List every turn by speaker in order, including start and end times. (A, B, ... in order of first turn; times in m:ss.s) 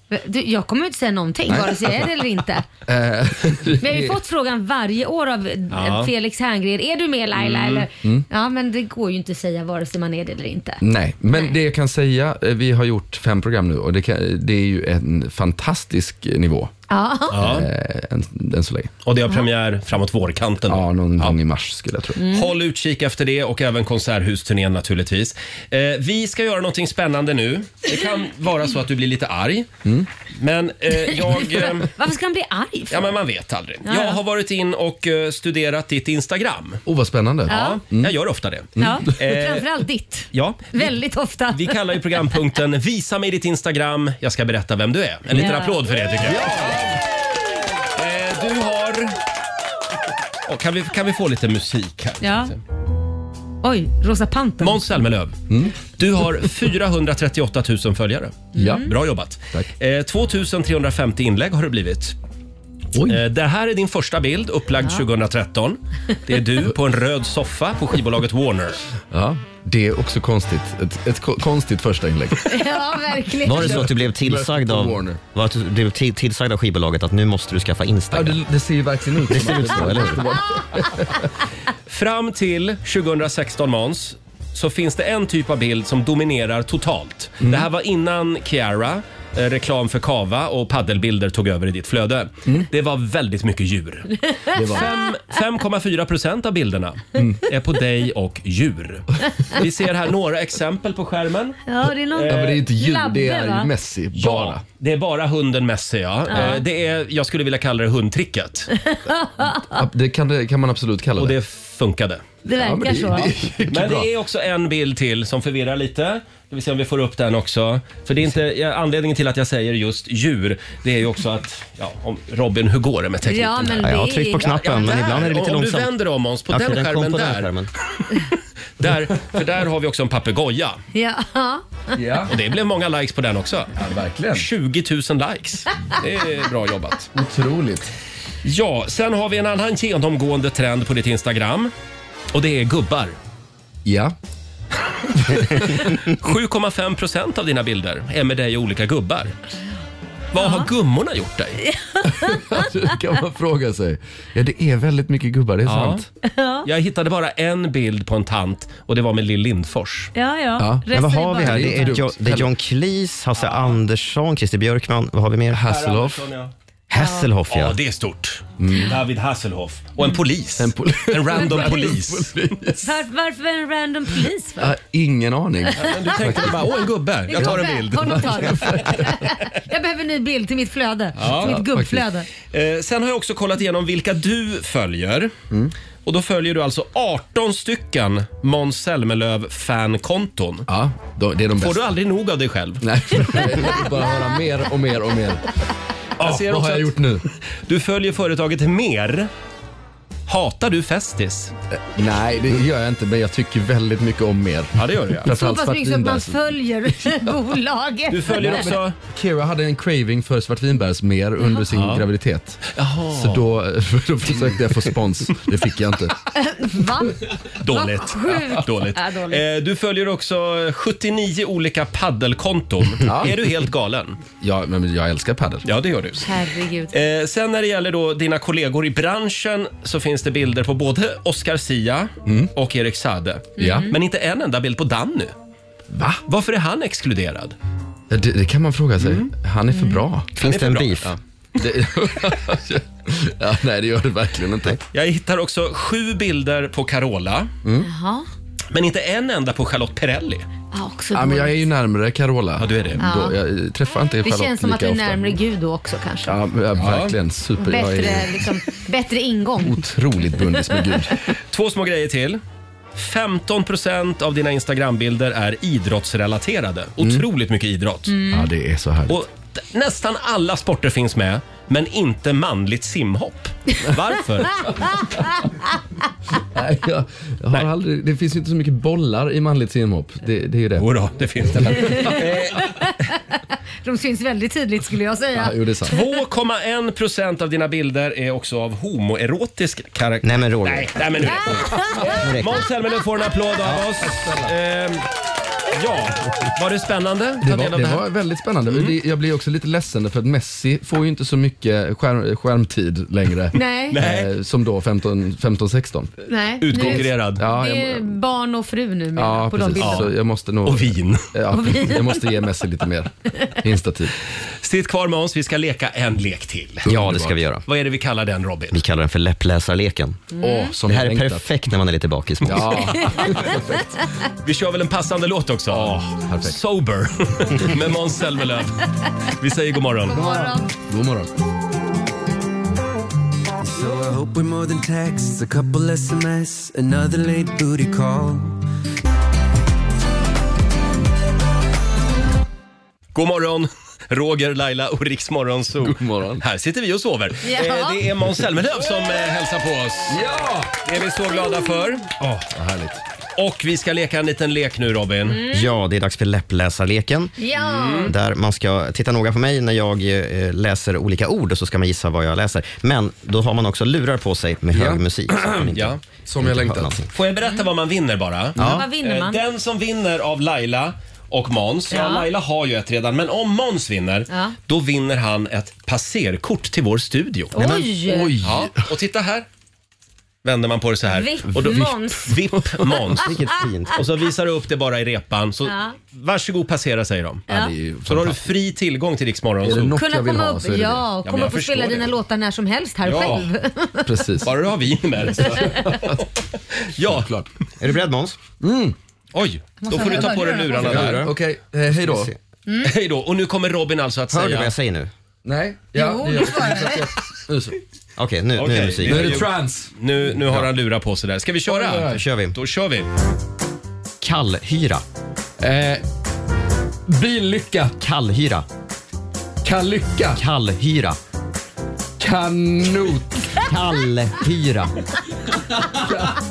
0:00.1-0:02.7 A
0:01.5-0:02.0 B
0:02.8-0:04.2 B
0:03.8-0:10.8 A
0:05.7-0:06.1 C
0:07.4-0:07.9 C
0:10.8-0:16.7 B
0:16.9-0:17.6 A
0:17.3-0:17.7 C
0:17.4-0:18.9 B
0:19.0-0:21.4 C
0:20.7-0:22.2 B
0:22.2-0:22.5 A
0:22.3-0:29.7 C
0:30.3-0:31.9 C
0:30.9-0:33.2 A
0:32.9-0:36.8 C
0:33.8-0:34.2 A
0:36.8-0:38.2 B
0:37.4-0:39.8 C
0:37.5-0:37.8 A
0:38.8-0:39.1 B
0:38.8-0:42.1 A
0:40.3-0:40.9 C
0:41.5-0:47.0 C
0:45.3-0:45.8 A
0:46.2-0:47.0 B
0:47.9-0:49.2 C
0:50.4-0:52.6 C
0:52.2-0:52.5 A
0:53.6-0:54.8 A
0:54.6-1:02.2 C
0:55.5-0:55.8 B
0:58.5-0:58.9 A
0:58.6-0:58.9 B
1:02.9-1:03.2 B
1:03.0-1:08.8 C
1:09.1-1:12.6 B
1:12.5-1:13.9 A
1:13.4-1:18.4 D
1:13.4-1:15.2 B
1:18.1-1:21.3 B
1:19.3-1:20.2 D
1:21.9-1:42.6 C
1:27.4-1:27.7 B
1:34.3-1:35.1 A
1:34.5-1:34.9 B
1:37.1-1:37.4 B
1:41.7-1:43.7 A
1:42.3-1:44.6 B
1:44.1-1:48.7 C
1:46.3-1:46.6 A
1:48.7-1:49.9 A
1:49.7-1:51.4 B
1:51.1-1:52.2 C
1:52.4-1:53.3 A
1:52.5-1:54.1 B
1:53.7-2:03.9 C
2:03.2-2:04.9 A
2:03.8-2:05.9 D
2:04.4-2:08.1 C
2:06.5-2:07.7 D
2:08.8-2:10.8 C
2:10.9-2:12.0 A
2:11.9-2:12.3 B
2:12.3-2:13.7 C
2:13.8-2:14.5 B
2:14.3-2:17.1 C
2:17.1-2:17.8 B
2:18.4-2:21.7 C
2:22.3-2:23.2 C
2:23.8-2:24.1 B
2:25.3-2:29.3 C
2:25.3-2:25.9 B
2:30.3-2:31.6 C
2:30.4-2:30.7 A
2:31.6-2:32.7 A
2:32.0-2:36.1 B
2:35.6-2:36.0 C
2:36.2-2:36.7 A
2:36.6-2:40.1 C
2:40.1-2:42.0 A
2:40.6-2:42.5 B
2:40.9-2:45.6 D
2:45.5-2:46.3 B
2:45.6-2:46.5 C
2:46.9-2:47.8 D
2:47.0-2:47.3 A
2:47.5-2:52.4 C
2:48.6-2:49.0 B
2:50.6-2:53.0 B
2:51.3-2:51.9 A
2:52.8-2:54.7 A
2:54.6-2:56.6 B
2:55.7-3:02.3 A
2:55.8-2:59.4 C
2:57.4-2:59.2 B
3:01.2-3:01.6 C
3:01.3-3:02.0 B
3:02.5-3:05.3 C
3:06.0-3:10.7 C
3:10.7-3:11.9 B
3:11.6-3:13.8 C
3:12.8-3:15.5 B
3:16.2-3:19.3 C
3:16.2-3:17.2 B
3:20.3-3:21.5 C
3:21.7-3:26.6 B
3:24.7-3:25.3 C
3:25.3-3:28.8 A
3:28.1-3:29.0 C
3:28.4-3:32.6 B
3:31.7-3:32.0 C
3:32.7-3:33.5 C
3:33.1-3:36.2 B
3:34.3-3:34.9 C
3:36.3-3:39.4 A
3:37.6-3:44.2 C
3:43.0-3:43.5 B
3:44.3-3:45.6 B
3:45.6-3:46.3 C
3:46.2-3:46.9 A
3:46.9-3:55.3 C
3:52.2-3:52.5 B
3:53.6-3:53.9 A
3:53.6-3:53.9 B
3:55.9-3:56.2 B
3:56.3-3:57.6 C
3:58.1-4:00.4 B
3:59.0-3:59.3 C
3:59.7-4:00.0 A
4:00.4-4:01.1 D
4:00.4-4:01.1 C
4:01.0-4:04.8 B
4:04.9-4:07.5 C
4:07.6-4:07.9 B
4:07.8-4:08.3 A
4:08.7-4:10.5 C
4:10.7-4:11.6 A
4:11.1-4:15.4 B
4:12.6-4:13.0 C
4:13.0-4:13.4 A
4:14.2-4:16.4 A
4:16.2-4:18.5 B
4:16.7-4:17.2 C
4:17.6-4:19.9 A
4:19.6-4:21.2 B
4:21.3-4:22.4 C
4:23.0-4:28.2 C
4:27.0-4:27.2 B
4:28.1-4:28.5 A
4:28.3-4:29.2 B
4:29.1-4:35.1 C
4:34.6-4:35.3 B
4:34.8-4:35.7 A
4:36.5-4:42.4 B
4:40.8-4:42.9 C
4:41.8-4:46.0 A
4:45.3-4:46.0 B
4:45.9-4:55.0 C
4:50.2-4:51.1 D
4:51.2-4:52.1 A
4:52.0-4:52.6 D
4:54.0-4:54.5 B
4:55.7-4:58.0 C
4:57.4-5:06.1 B
4:58.7-4:59.0 C
5:03.5-5:04.0 A
5:03.9-5:04.3 C
5:06.3-5:10.1 A
5:06.6-5:07.4 C
5:06.7-5:08.2 B
5:09.2-5:14.1 B
5:09.8-5:10.1 C
5:10.6-5:11.3 C
5:11.5-5:12.2 A
5:14.6-5:16.9 C
5:16.8-5:17.6 D
5:16.8-5:17.4 B
5:17.6-5:18.8 C
5:18.7-5:20.3 D
5:20.3-5:20.7 A
5:20.4-5:21.5 B
5:20.8-5:23.2 D
5:22.4-5:23.8 B
5:23.0-5:23.5 A
5:24.4-5:30.2 C
5:25.7-5:26.6 B
5:30.1-5:30.7 A
5:30.3-5:31.3 B
5:33.6-5:38.6 E
5:43.1-5:50.2 C
5:45.8-5:46.4 B
5:47.4-5:48.0 A
5:50.1-5:50.8 B
5:50.8-5:52.4 C
5:52.3-5:53.0 B
5:53.4-5:55.4 C
5:55.3-5:55.7 A
5:55.5-5:57.3 D
5:57.4-5:58.1 A
5:57.6-5:58.1 C
5:58.0-6:07.1 D
6:04.7-6:07.0 B
6:05.7-6:06.0 C
6:07.1-6:17.5 C
6:08.6-6:08.8 D
6:08.6-6:09.4 A
6:11.9-6:12.3 A
6:14.3-6:14.5 A
6:17.5-6:18.4 A
6:17.6-6:18.8 B
6:18.4-6:19.5 C
6:20.4-6:23.3 C
6:21.1-6:23.3 A
6:21.6-6:21.9 B
6:23.2-6:24.0 D
6:23.9-6:27.5 C
6:25.6-6:25.9 A
6:27.5-6:28.4 B
6:28.0-6:30.0 C
6:29.6-6:31.1 B
6:29.9-6:34.3 A
6:31.2-6:32.1 C
6:33.0-6:33.5 C
6:34.0-6:34.5 B
6:34.4-6:36.2 C
6:35.3-6:36.2 B
6:35.4-6:36.0 A
6:36.8-6:37.3 C
6:37.0-6:37.5 B
6:37.8-6:38.4 D
6:38.6-6:39.0 B
6:39.3-6:41.3 C
6:39.8-6:41.2 A
6:40.7-6:42.3 B
6:41.9-6:42.3 D
6:42.7-6:42.9 A
6:42.8-6:44.7 C
6:44.3-6:45.1 D
6:45.4-6:47.8 B
6:45.9-6:47.1 A
6:48.2-6:49.5 D
6:48.6-6:53.1 C
6:49.0-6:49.9 B
6:51.7-6:52.2 B
6:51.9-6:52.6 D
6:54.2-6:55.0 D
6:55.6-6:56.0 B
6:57.1-6:58.0 B
6:58.0-6:58.6 D
6:59.6-7:00.4 B
7:00.3-7:01.2 D
7:02.2-7:03.6 B
7:03.6-7:05.0 D
7:05.9-7:06.4 B